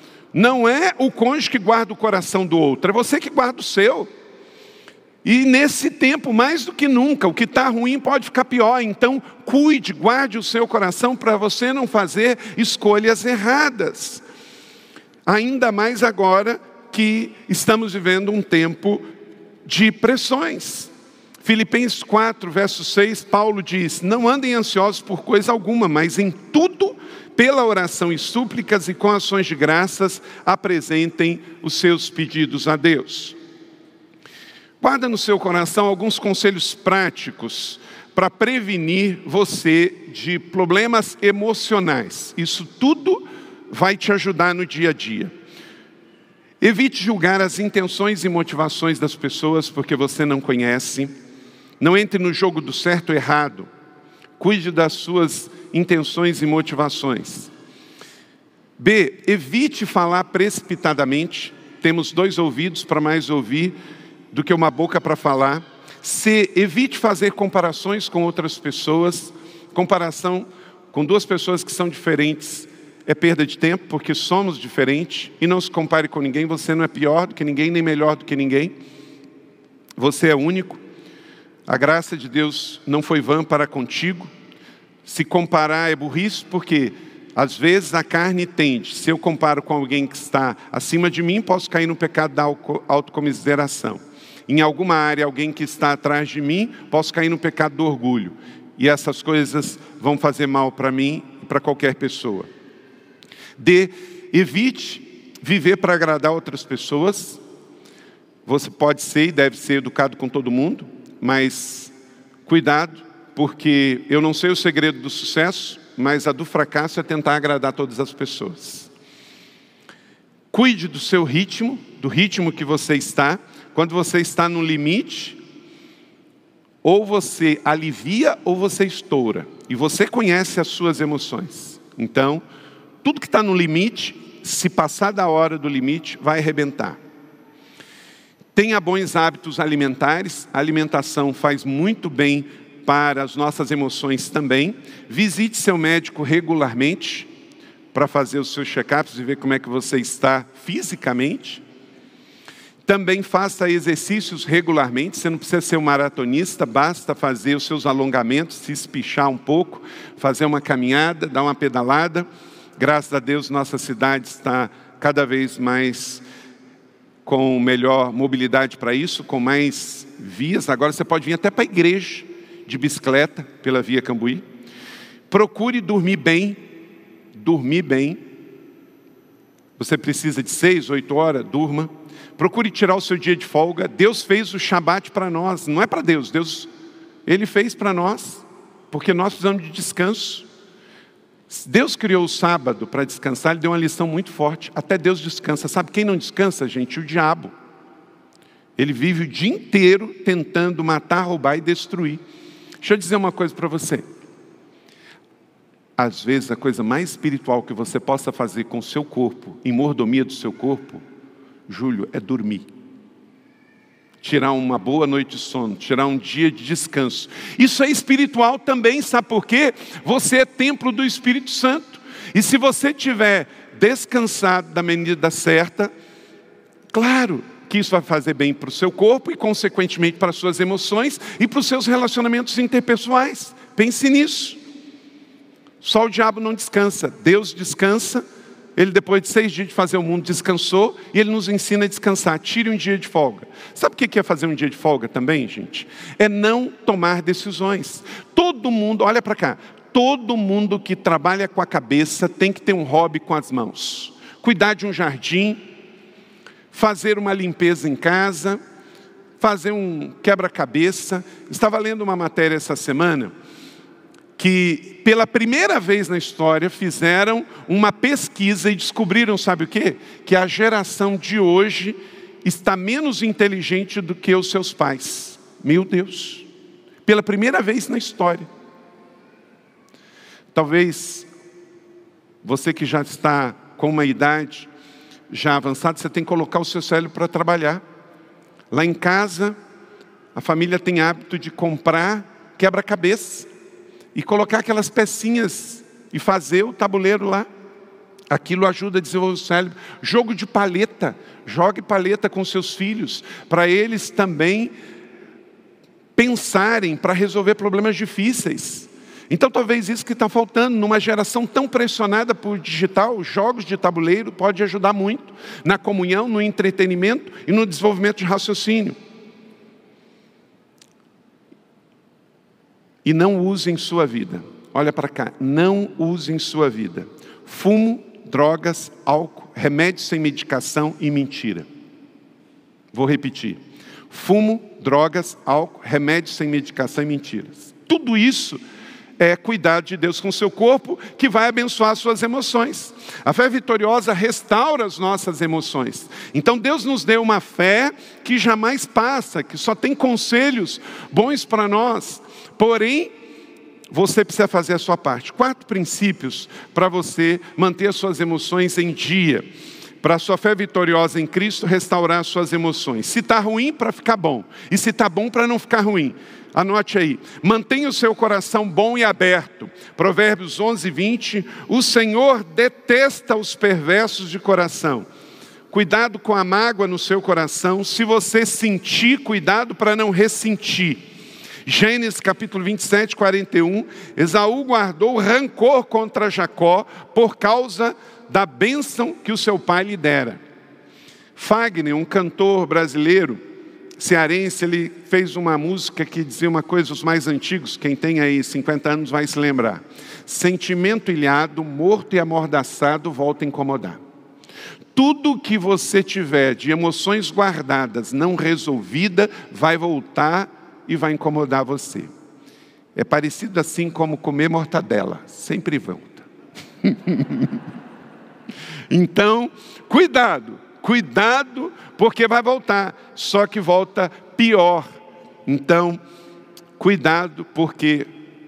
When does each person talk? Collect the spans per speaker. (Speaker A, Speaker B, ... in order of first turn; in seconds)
Speaker A: 0.3-4.1, 5.2-14.2, 15.2-19.1, 19.6-20.9, 21.4-33.4, 34.8-45.3, 46.6-51.1, 51.8-53.7, 54.4-57.5, 58.8-63.8, 64.3-78.7, 80.0-80.8, 81.7-84.3, 85.0-102.5, 103.6-107.4, 108.5-111.9, 112.5-118.9, 120.5-125.4, 126.8-132.4, 133.0-137.0, 138.5-147.3, 147.9-151.6, 152.8-162.3, 162.8-166.2, 167.2-174.4, 175.3-176.6, 177.3-178.2, 179.8-186.7, 187.2-190.4, 191.5-197.5, 198.8-202.2, 202.8-204.1, 206.0-211.0, 211.7-212.7, 214.2-225.9, 226.9-234.6, 235.8-238.2, 238.8-255.6, 256.7-258.6, 259.4-263.3, 264.4-276.5, 277.1-278.5, 280.5-281.3, 282.4-284.7, 285.3-287.8, 288.7-289.6, 290.3-293.5, 294.1-297.5, 298.3-304.7, 306.1-318.9, 323.0-331.7, 332.9-338.6, 339.2-353.1, 353.9-359.4, 360.0-375.1, 375.7-381.1, 381.6-390.4, 391.4-393.4, 394.0-404.0, 404.9-412.1, 412.9-416.2, 416.8-417.6, 418.9-424.9, 425.4-426.0, 426.8-428.1